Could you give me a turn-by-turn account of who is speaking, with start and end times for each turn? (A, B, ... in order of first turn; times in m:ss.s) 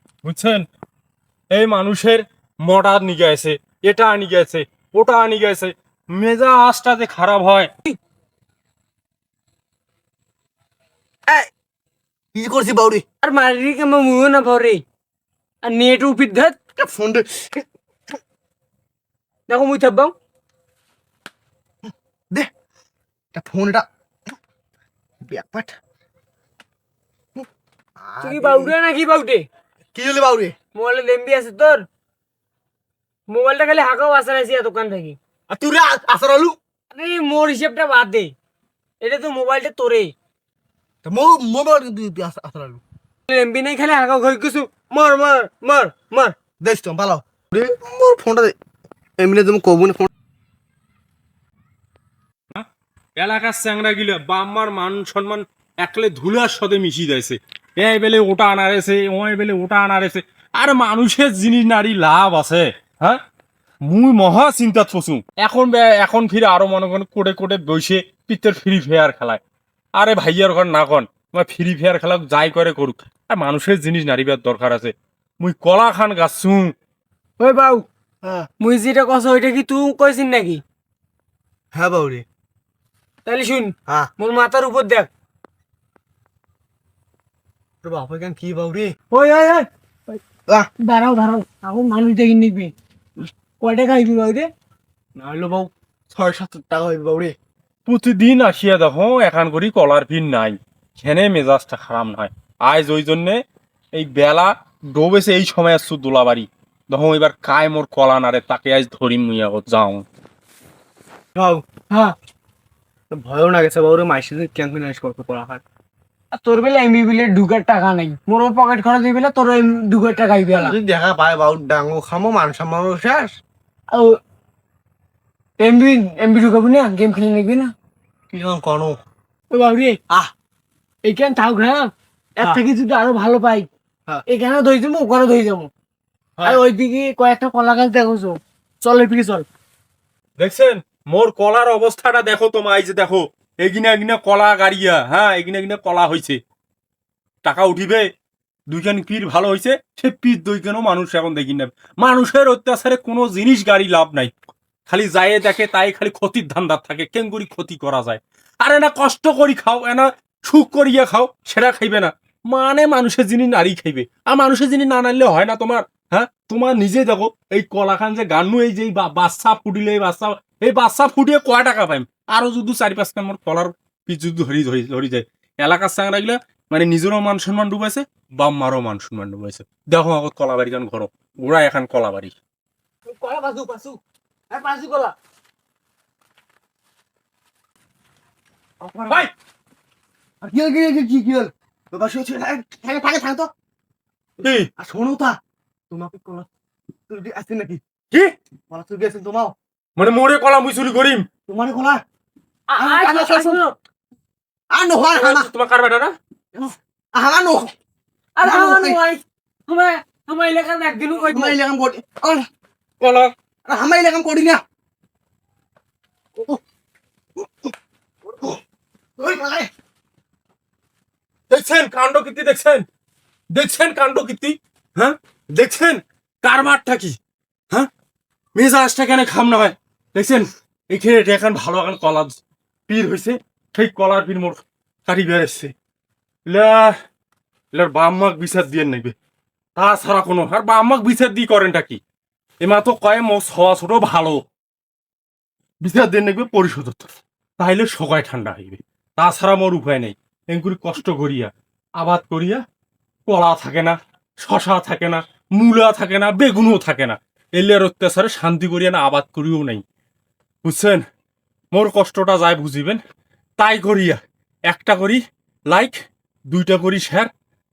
0:00.2-0:00.6 A
0:01.5-0:07.7 A
0:12.3-0:13.0 B
0:13.2-0:14.8 C
0:15.6-0:16.6 C
0:16.8-0:17.6 B
0:19.5-0:20.1 C
0:21.8-0:22.5 B
0:23.3-0:23.8 B
0:25.2-0:25.7 B
0:28.0-0:28.7 B
0:28.2-0:29.4 C
0:29.9-0:30.5 B
0:30.7-0:31.8 C
0:33.3-0:35.2 C
0:35.5-0:36.6 B
0:36.9-0:38.3 C
0:39.0-0:40.1 C
0:41.0-0:42.8 B
0:43.3-0:46.4 C
0:46.6-0:48.5 B
0:49.2-0:50.1 B
0:53.2-1:03.2 A
1:03.9-1:09.4 A
1:10.0-1:16.7 A
1:17.4-1:17.8 C
1:18.2-1:18.5 B
1:18.6-1:20.6 C
1:21.7-1:22.2 B
1:23.2-1:25.1 C
1:27.8-1:28.9 B
1:29.1-1:30.2 C
1:30.8-1:32.7 C
1:33.6-1:34.5 C
1:35.2-1:37.3 B
1:37.8-1:43.4 A
1:44.0-1:50.0 A
1:51.3-1:51.6 B
1:53.1-1:55.6 B
1:56.3-2:00.7 C
2:00.5-2:03.3 B
2:05.6-2:07.7 C
2:08.3-2:09.0 B
2:09.5-2:10.0 C
2:11.0-2:13.7 C
2:14.3-2:15.7 C
2:16.4-2:19.4 C
2:20.4-2:26.4 A
2:27.4-2:28.1 A
2:28.7-2:34.3 A
2:34.9-3:02.3 A
3:03.1-3:05.1 C
3:08.8-3:09.3 B
3:10.4-3:13.5 B
3:14.4-3:14.7 A
3:14.8-3:15.4 B
3:15.9-3:16.5 B
3:17.1-3:17.8 B
3:18.7-3:19.5 B
3:20.0-3:21.3 A
3:21.5-3:22.0 B
3:22.7-3:23.7 C
3:22.8-3:23.6 B
3:24.7-3:25.5 B
3:25.1-3:26.1 A
3:26.5-3:27.7 B
3:28.4-3:31.6 C
3:28.4-3:29.0 B
3:31.3-3:32.5 B
3:33.0-3:33.3 A
3:33.6-3:34.6 B
3:37.4-3:37.7 B
3:39.2-3:39.7 B
3:41.5-3:42.8 A
3:43.5-3:47.2 A
3:48.6-3:55.7 A
3:56.5-3:56.9 A
3:57.7-3:59.1 A
3:59.8-4:02.0 A
4:02.6-4:04.4 A
4:05.8-4:12.6 A
4:13.3-4:19.8 A
4:20.6-4:21.0 A
4:21.7-4:23.0 A
4:23.6-4:26.0 A
4:26.5-4:27.3 A